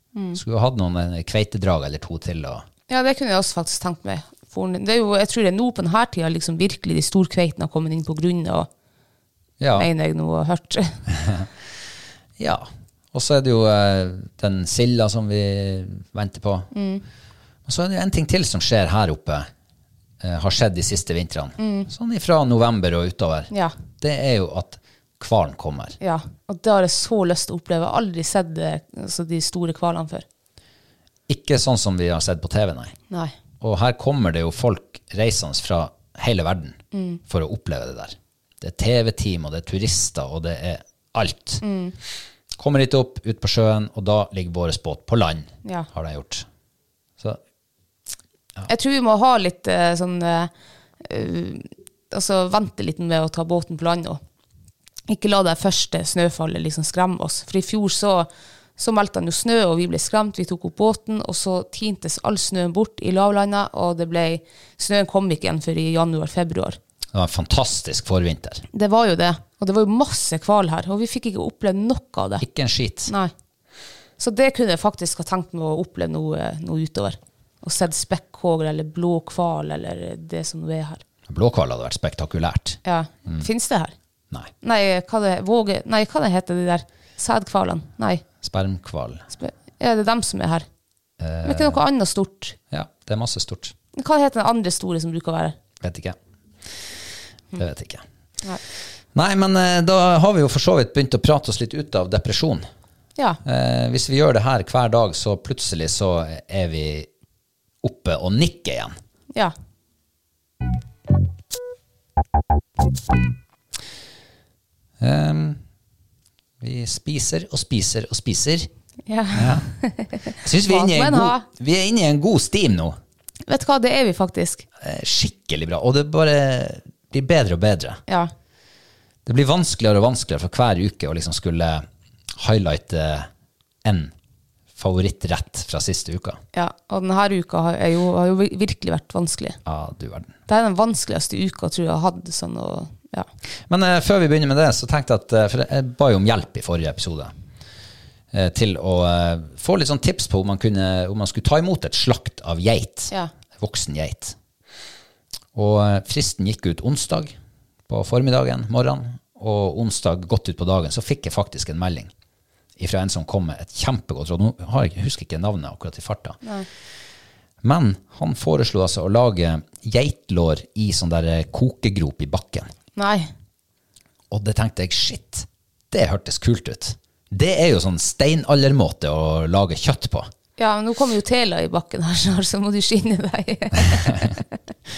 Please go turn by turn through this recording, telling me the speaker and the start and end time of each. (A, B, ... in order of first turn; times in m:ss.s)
0:00.3-0:02.6 A
0:02.9-0:08.7 B
0:09.6-0:09.9 A
0:09.8-0:11.0 B
0:11.1-0:11.5 A
0:12.4-0:16.7 A
0:16.7-0:17.0 B
0:17.6-0:19.5 A
0:20.2-0:26.0 A
0:21.6-0:21.9 B
0:26.0-0:30.2 B
0:31.3-0:33.0 A
0:33.6-0:41.6 A
0:36.9-0:37.2 B
0:41.6-0:42.0 B
0:42.6-0:46.4 A
0:48.7-0:50.5 B
0:51.0-0:54.2 B
0:55.1-1:06.8 B
1:07.1-1:08.6 A
1:08.7-1:12.4 B
1:12.4-1:13.1 A
1:14.2-1:21.0 B
1:21.3-1:23.5 A
1:22.8-1:23.9 B
1:24.6-1:28.2 B
1:28.4-1:29.3 A
1:29.3-1:30.6 B
1:31.2-1:31.8 A
1:31.4-1:32.6 B
1:32.7-1:33.7 A
1:34.0-1:35.6 B
1:35.8-1:36.2 A
1:37.6-1:38.0 A
1:39.1-1:42.6 A
1:43.4-1:47.1 A
1:47.8-1:49.0 A
1:55.0-1:55.6 A
1:56.6-1:58.7 A
1:59.1-2:01.4 B
1:59.3-1:59.6 A
2:00.4-2:03.0 A
2:03.5-2:04.6 B
2:04.8-2:08.0 A
2:09.3-2:13.3 A
2:13.8-2:14.1 A
2:14.8-2:16.4 A
2:16.5-2:19.6 B
2:19.6-2:20.3 A
2:20.5-2:23.3 B
2:23.7-2:27.3 A
2:28.3-2:34.4 A
2:35.6-2:37.4 A
2:37.9-2:42.1 A
2:42.8-2:46.4 A
2:47.6-2:52.7 A
2:53.0-2:53.3 B
2:54.3-3:00.3 A
3:00.6-3:04.4 B